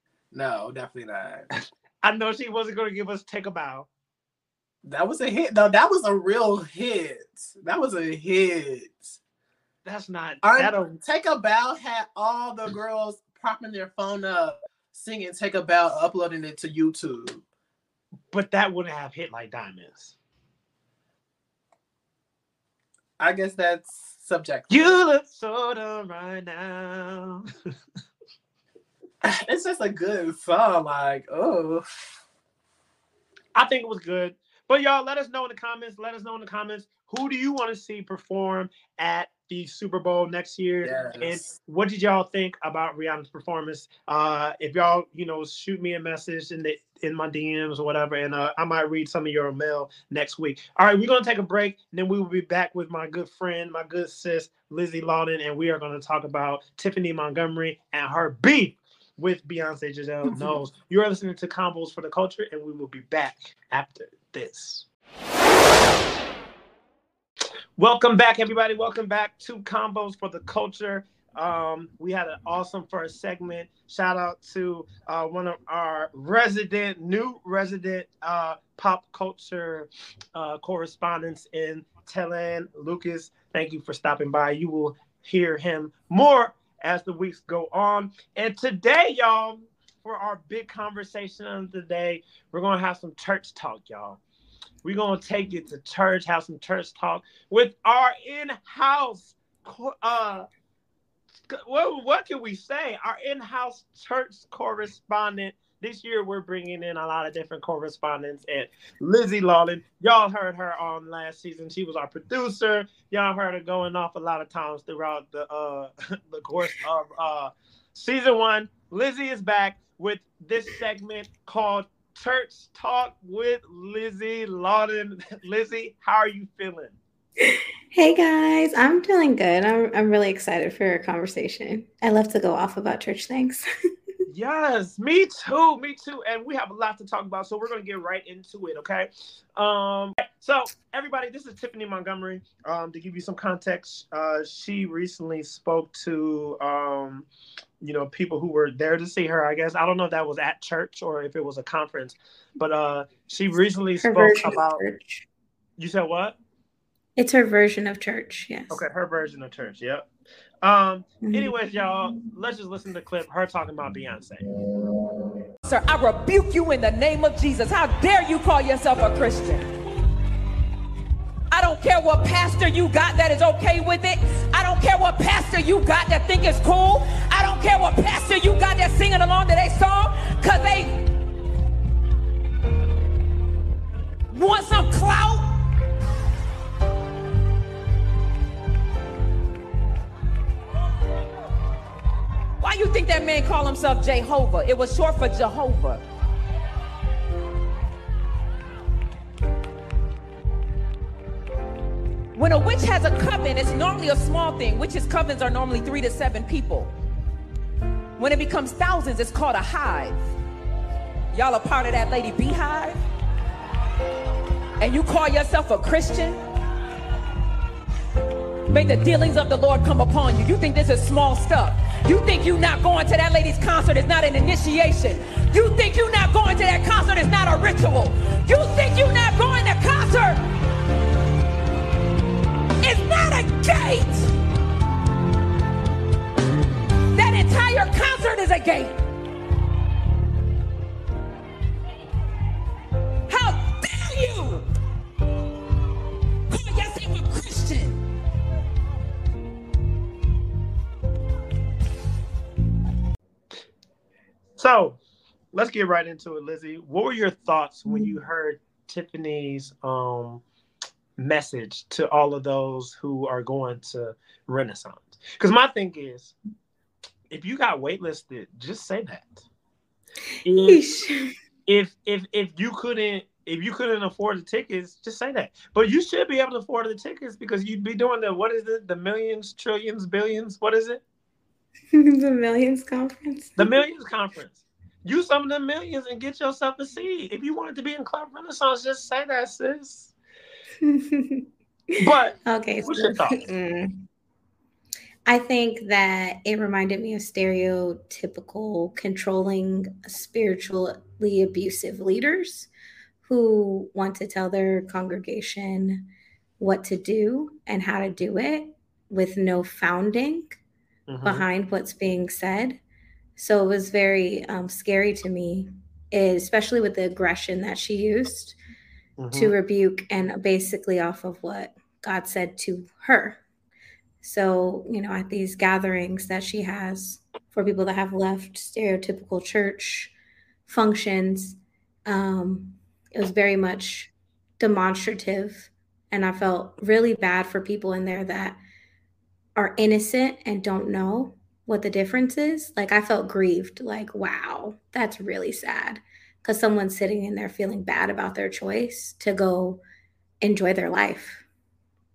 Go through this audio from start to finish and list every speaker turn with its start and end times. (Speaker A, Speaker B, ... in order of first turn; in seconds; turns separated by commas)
Speaker A: 0.3-1.5, Speaker B: 2.0-3.9, Speaker A: 4.8-9.2, Speaker B: 9.8-11.0, Speaker A: 10.4-17.4, Speaker B: 18.3-20.1, Speaker A: 23.2-25.0, Speaker B: 24.7-27.5, Speaker A: 29.2-31.9, Speaker B: 33.5-64.8, Speaker A: 40.8-41.4, Speaker A: 60.2-60.6, Speaker B: 67.8-94.2, Speaker B: 94.8-100.5, Speaker B: 101.5-127.0, Speaker C: 127.4-133.7, Speaker B: 134.3-147.2, Speaker B: 147.8-154.8, Speaker C: 154.0-155.2, Speaker B: 155.8-156.3, Speaker C: 157.2-158.8, Speaker B: 158.7-160.1, Speaker B: 160.6-164.4, Speaker C: 161.2-161.5, Speaker D: 165.7-169.7, Speaker D: 171.5-181.1, Speaker D: 184.3-185.6, Speaker D: 192.6-196.0, Speaker D: 202.4-206.9, Speaker D: 208.2-210.1, Speaker D: 211.3-213.0, Speaker D: 214.8-216.4, Speaker D: 218.7-230.4, Speaker D: 232.8-234.2, Speaker D: 237.2-239.0, Speaker D: 243.3-244.6, Speaker D: 246.5-248.0, Speaker B: 254.6-255.0, Speaker B: 255.5-260.4, Speaker B: 261.2-266.4, Speaker B: 267.3-269.4, Speaker B: 270.4-270.9, Speaker C: 270.6-271.3, Speaker B: 271.7-281.0, Speaker C: 281.9-283.8, Speaker B: 283.6-290.1, Speaker C: 290.8-294.0, Speaker B: 292.0-293.4, Speaker C: 295.3-302.7, Speaker C: 303.2-306.1, Speaker C: 306.6-310.6, Speaker B: 311.1-311.4, Speaker C: 311.2-312.8, Speaker C: 313.4-318.6, Speaker B: 319.2-319.5, Speaker C: 319.3-323.4, Speaker C: 324.2-330.1, Speaker C: 330.7-338.6, Speaker C: 339.6-349.8, Speaker C: 350.4-351.4